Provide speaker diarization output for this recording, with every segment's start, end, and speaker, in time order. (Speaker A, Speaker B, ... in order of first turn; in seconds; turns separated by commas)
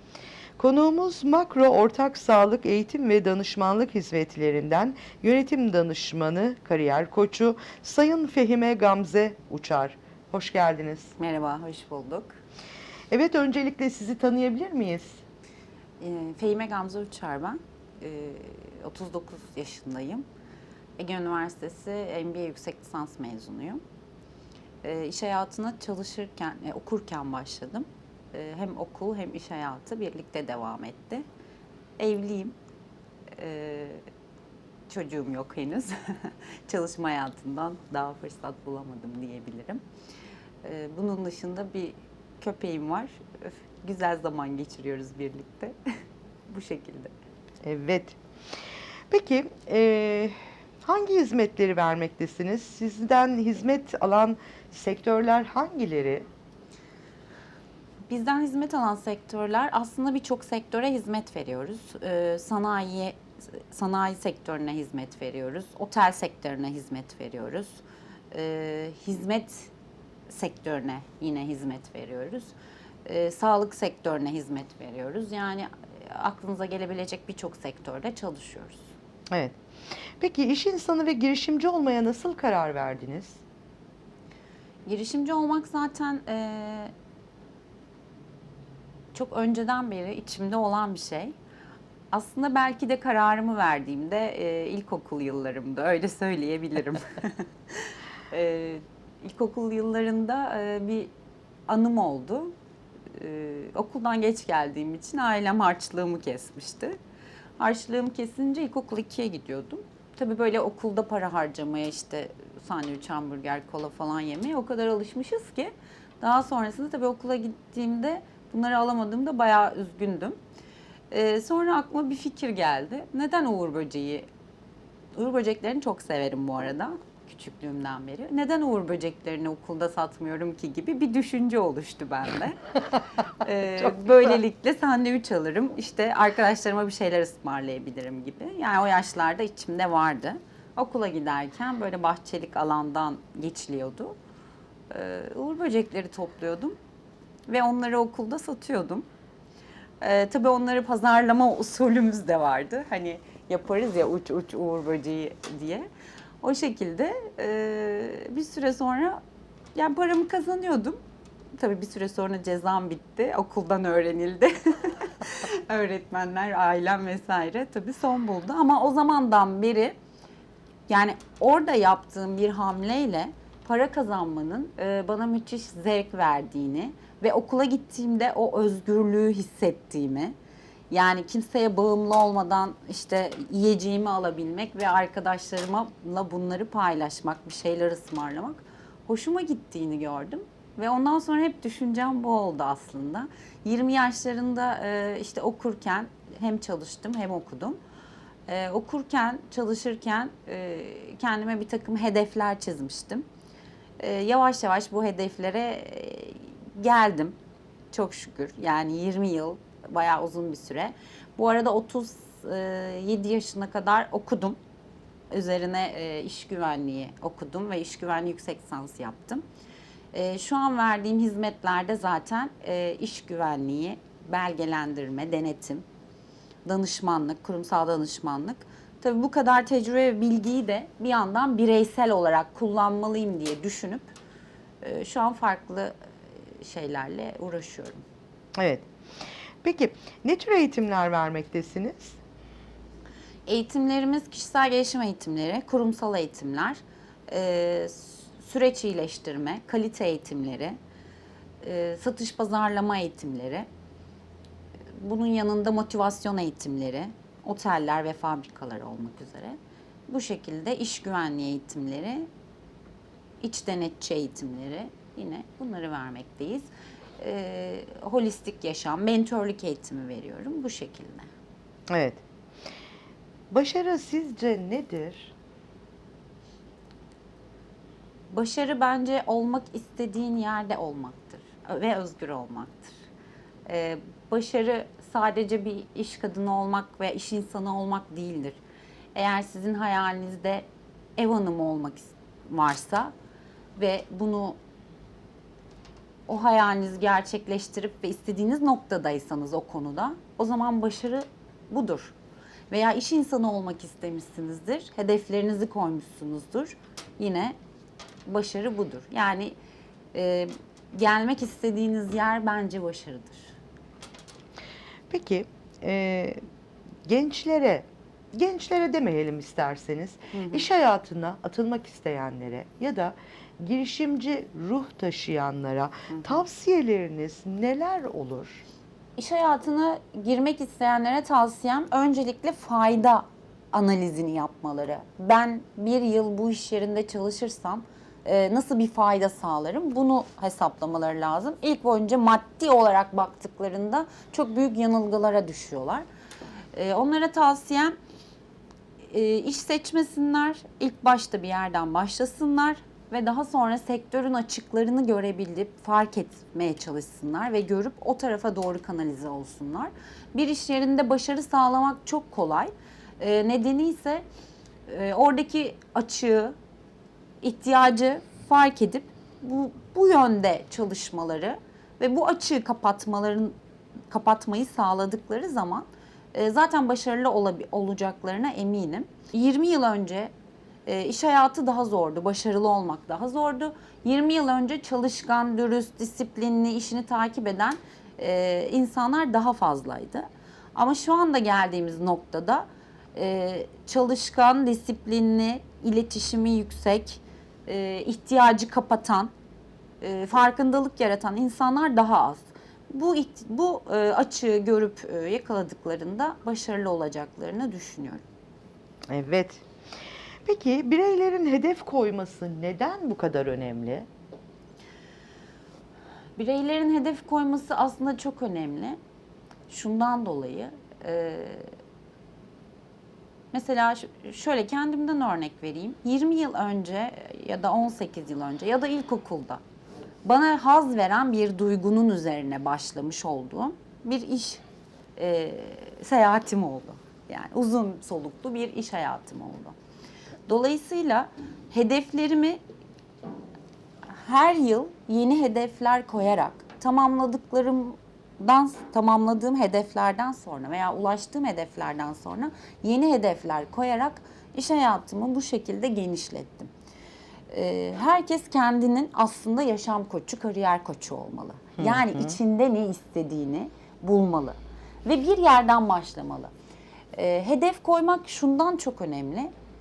Speaker A: 0.6-11.1, Speaker B: 11.2-12.4, Speaker A: 13.1-15.2, Speaker B: 16.0-20.2, Speaker B: 21.0-23.8, Speaker B: 24.8-31.2, Speaker B: 32.0-32.5, Speaker B: 33.4-34.0, Speaker B: 34.9-39.8, Speaker B: 40.6-45.8, Speaker B: 46.5-47.1, Speaker A: 47.6-48.2, Speaker A: 49.1-56.2, Speaker B: 58.1-63.2, Speaker B: 63.7-69.7, Speaker B: 70.3-78.9, Speaker A: 79.3-79.6, Speaker A: 80.2-83.4, Speaker B: 84.8-86.9, Speaker B: 89.1-91.3, Speaker B: 92.1-101.1, Speaker B: 101.7-102.5, Speaker B: 103.1-107.0, Speaker B: 107.6-120.4, Speaker B: 121.1-124.2, Speaker B: 125.1-132.6, Speaker B: 133.3-144.2, Speaker B: 144.9-146.8, Speaker B: 147.5-149.1, Speaker B: 150.0-155.9, Speaker B: 156.4-159.2, Speaker B: 159.7-161.0, Speaker B: 161.5-169.9, Speaker B: 170.9-180.3, Speaker B: 180.9-197.8, Speaker B: 198.5-203.3, Speaker B: 204.0-207.3, Speaker B: 207.9-214.6, Speaker B: 215.3-219.4, Speaker B: 220.1-225.8, Speaker B: 226.6-234.1, Speaker B: 234.8-235.9, Speaker B: 236.5-238.0, Speaker A: 238.6-238.8, Speaker A: 239.6-242.2, Speaker B: 243.5-250.8, Speaker B: 251.6-253.7, Speaker B: 255.0-259.6, Speaker B: 260.1-262.3, Speaker B: 263.4-271.3, Speaker A: 271.9-272.2, Speaker A: 273.5-275.3, Speaker B: 278.3-283.0, Speaker B: 283.7-288.6, Speaker B: 289.1-290.6, Speaker B: 291.2-293.1, Speaker B: 293.8-294.6, Speaker B: 296.3-302.1, Speaker B: 302.7-307.5, Speaker B: 308.3-309.5, Speaker B: 310.1-313.5, Speaker A: 315.1-316.4, Speaker A: 317.0-328.6, Speaker B: 320.3-320.6, Speaker B: 326.1-326.4, Speaker B: 329.2-346.0, Speaker B: 346.7-347.9, Speaker B: 349.1-364.2, Speaker B: 364.9-366.6, Speaker B: 367.4-373.5, Speaker B: 374.1-380.3, Speaker B: 380.9-399.3, Speaker B: 400.0-408.2, Speaker A: 409.1-409.6, Speaker A: 410.4-414.1, Speaker B: 416.4-419.0, Speaker B: 419.7-421.7, Speaker B: 423.5-429.6, Speaker B: 430.2-434.6, Speaker B: 435.2-439.8, Speaker B: 440.5-442.6, Speaker B: 444.1-456.7, Speaker B: 457.5-466.5, Speaker A: 461.8-462.4, Speaker B: 467.1-469.5